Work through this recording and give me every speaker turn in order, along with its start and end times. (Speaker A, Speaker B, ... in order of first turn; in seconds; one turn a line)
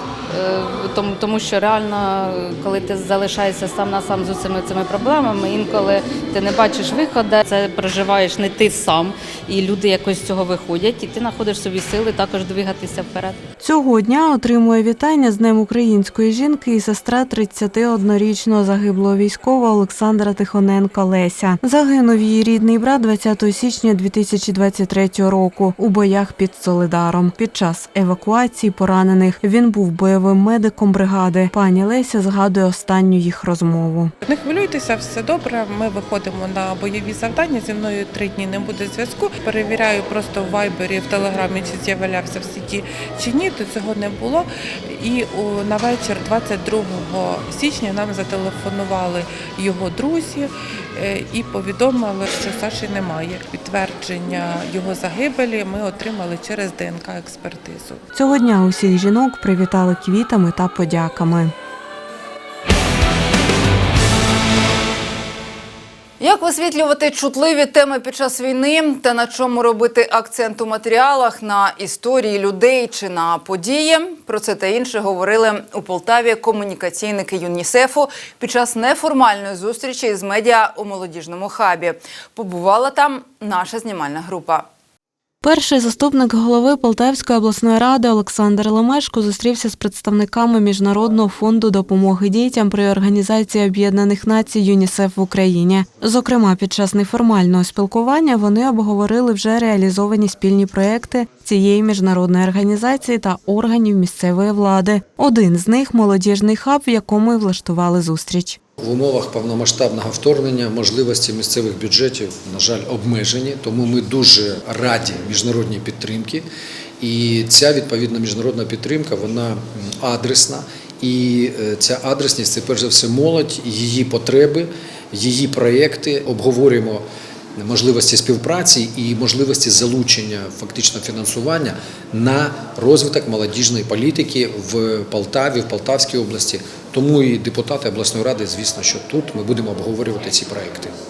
Speaker A: 0.3-13.4
Speaker B: 13.6-34.1
Speaker C: 34.2-58.0
Speaker B: 58.1-61.5
Speaker D: 66.2-84.6
Speaker B: 85.4-108.6
Speaker E: 108.8-116.4
Speaker E: 117.0-127.0
Speaker E: 127.6-140.9